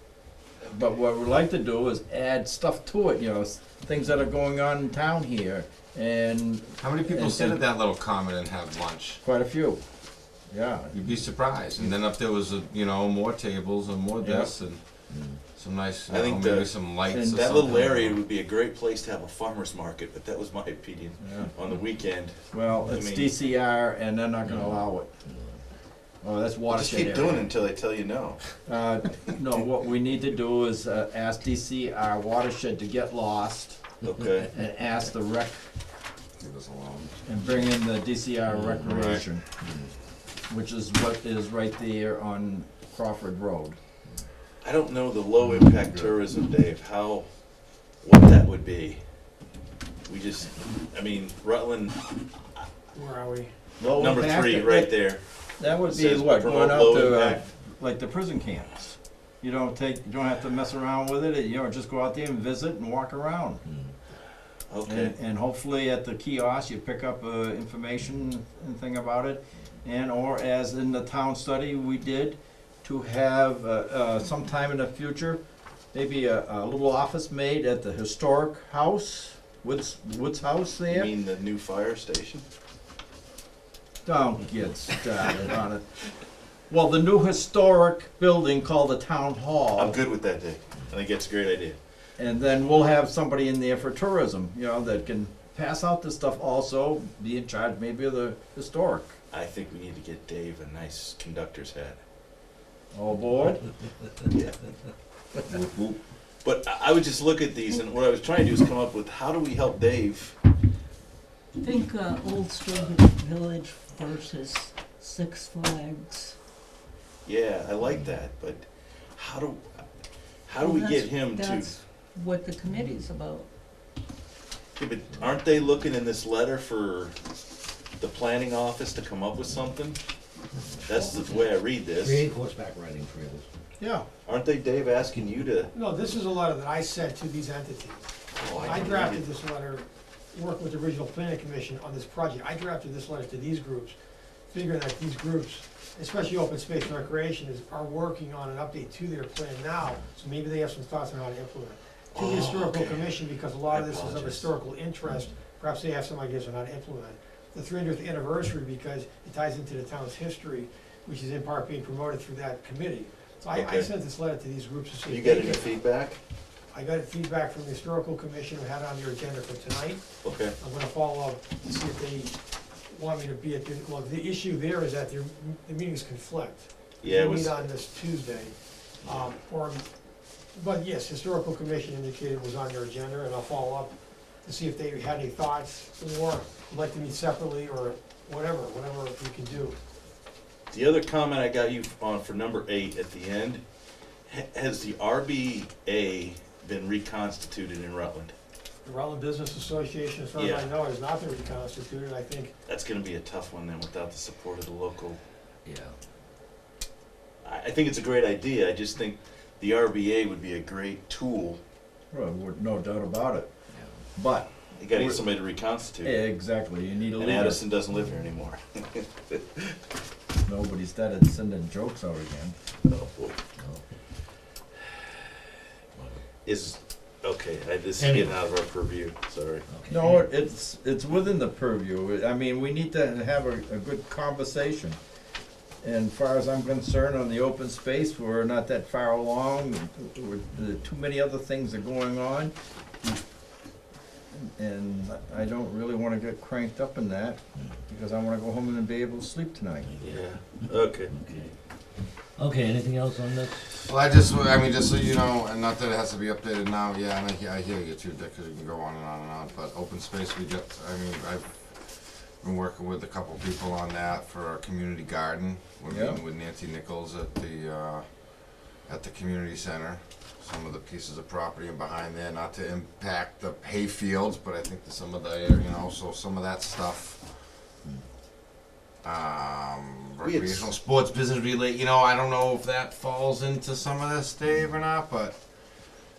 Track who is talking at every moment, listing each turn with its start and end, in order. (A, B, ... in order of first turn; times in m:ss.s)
0:00.6-0:07.6 A
0:06.8-0:09.2 B
0:09.2-0:09.8 A
0:10.5-0:10.9 A
0:10.9-0:17.4 B
0:14.2-0:14.5 A
0:15.1-0:15.4 C
0:16.1-0:16.7 D
0:17.1-0:18.2 A
0:17.3-0:23.4 D
0:21.2-0:21.5 A
0:22.5-0:25.1 A
0:24.5-0:25.6 C
0:26.2-0:27.5 A
0:26.7-0:28.4 D
0:28.6-0:33.8 A
0:34.0-0:34.5 D
0:34.5-0:35.6 A
0:36.4-0:37.2 B
0:37.2-0:39.4 A
0:38.5-0:38.9 C
0:38.8-0:39.2 B
0:39.6-0:39.9 C
0:40.5-0:43.8 A
0:44.6-0:47.2 D
0:48.0-0:49.0 D
0:50.1-0:52.0 D
0:52.9-0:53.5 E
0:53.8-0:54.9 A
0:53.9-0:57.4 D
0:55.6-0:58.8 A
0:59.4-1:03.6 A
1:03.7-1:03.9 C
1:04.7-1:05.1 D
1:04.9-1:15.4 A
1:15.9-1:21.1 A
1:20.9-1:22.4 D
1:24.0-1:25.8 A
1:26.7-1:30.0 A
1:29.8-1:31.8 D
1:32.2-1:39.2 A
1:39.3-1:42.0 D
1:42.9-1:43.6 A
1:44.3-1:44.6 D
1:45.6-1:45.9 B
1:46.4-1:50.4 D
1:51.6-1:56.4 F
1:57.2-1:58.6 D
1:57.8-1:58.2 C
1:59.2-1:59.8 D
2:00.5-2:01.8 D
2:00.6-2:03.5 F
2:04.8-2:07.2 D
2:05.1-2:05.9 C
2:08.0-2:10.0 D
2:09.4-2:09.8 C
2:10.5-2:13.5 C
2:10.8-2:12.3 D
2:13.8-2:14.0 A
2:14.2-2:15.7 D
2:15.7-2:23.9 E
2:18.3-2:19.2 D
2:24.5-2:45.7 E
2:32.1-2:34.5 D
2:43.5-2:43.9 D
2:45.1-2:46.2 D
2:46.7-2:50.1 E
2:50.2-2:50.6 D
2:50.6-2:52.4 E
2:52.9-2:59.8 E
2:57.0-2:57.7 D
2:59.0-2:59.3 D
3:00.5-3:03.9 E
3:04.4-3:09.8 E
3:10.7-3:13.6 D
3:14.3-3:18.3 D
3:18.8-3:22.5 E
3:20.3-3:20.8 D
3:22.7-3:25.2 D
3:25.6-3:26.0 C
3:27.4-3:31.6 D
3:32.1-3:33.5 A
3:33.7-3:34.0 C
3:34.2-3:35.2 A
3:34.8-3:36.2 D
3:36.0-3:37.6 A
3:37.2-3:39.8 D
3:40.4-3:42.5 A
3:42.8-3:43.4 D
3:43.6-3:43.8 C
3:45.9-3:46.2 C
3:46.4-3:49.6 D
3:48.0-3:48.4 C
3:49.7-3:50.2 C
3:49.9-3:55.0 A
3:55.8-4:03.2 A
4:04.4-4:09.9 A
4:09.9-4:11.6 C
4:10.0-4:11.1 D
4:12.4-4:13.7 C
4:13.8-4:37.2 B
4:25.9-4:26.2 A
4:39.0-4:45.4 B
4:40.2-4:40.7 D